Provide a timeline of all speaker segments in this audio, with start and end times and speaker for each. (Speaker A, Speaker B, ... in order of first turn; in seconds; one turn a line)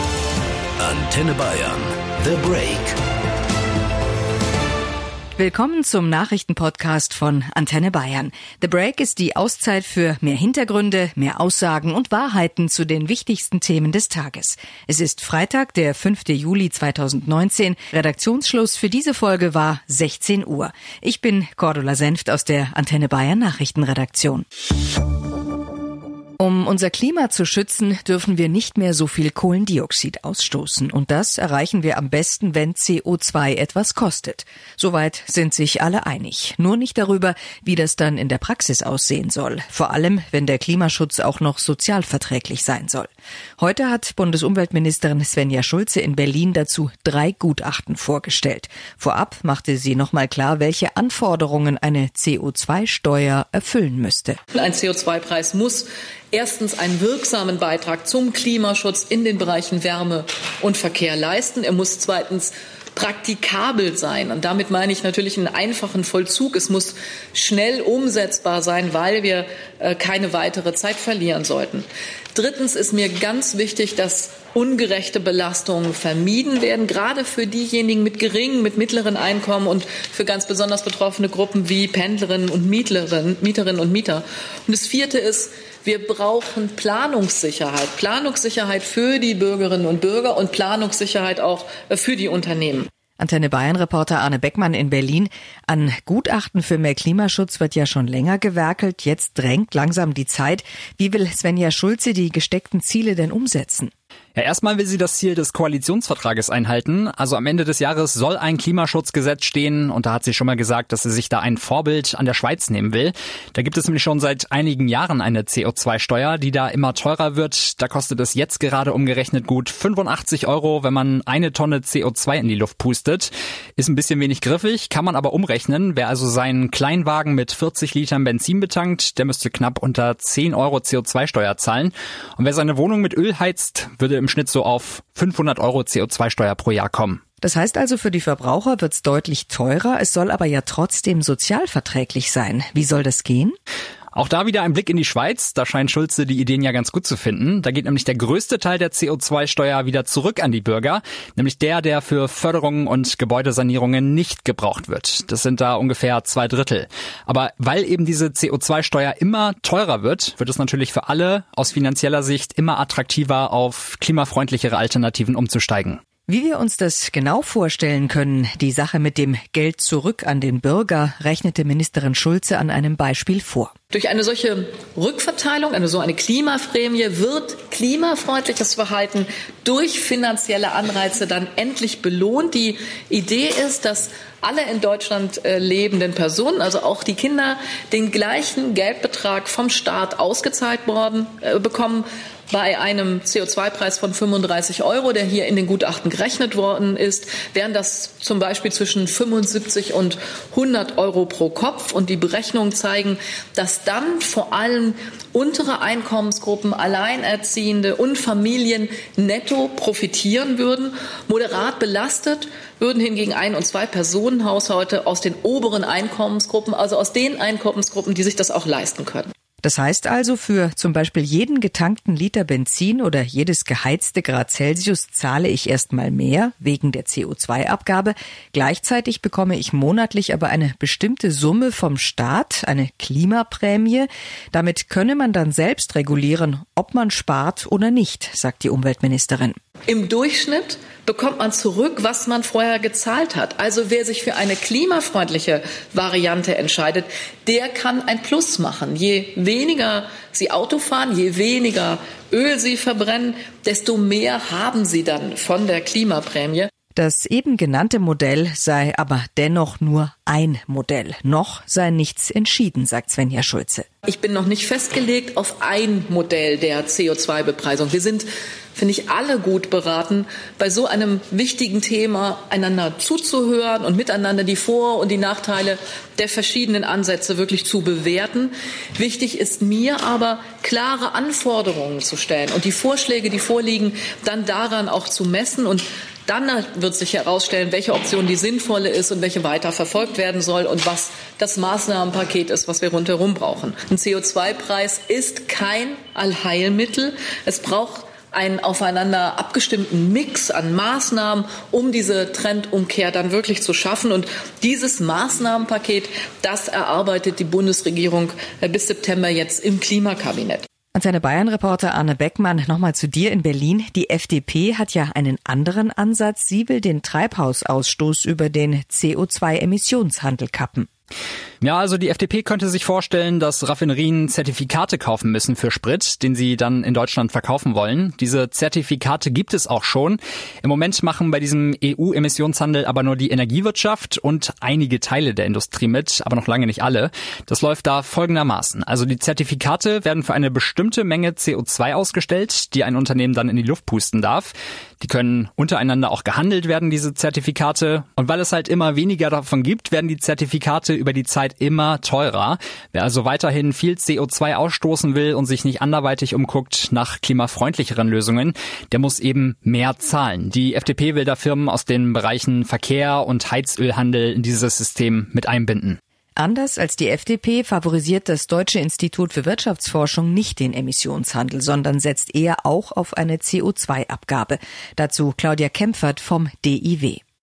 Speaker A: 0.8-3.0
Speaker B: 5.4-24.4
Speaker B: 26.4-43.1
Speaker B: 43.6-54.4
Speaker C: 54.5-92.9
Speaker B: 93.2-103.9
Speaker D: 104.3-137.2
Speaker B: 137.4-143.6
Speaker D: 144.1-166.0
Speaker B: 166.3-173.7
Speaker C: 173.9-219.3
Speaker B: 219.6-239.6
Speaker C: 239.9-256.7
Speaker B: 256.9-263.9
Speaker C: 264.0-310.6
Speaker B: 310.9-320.9
Speaker D: 321.6-366.0
Speaker B: 366.4-377.2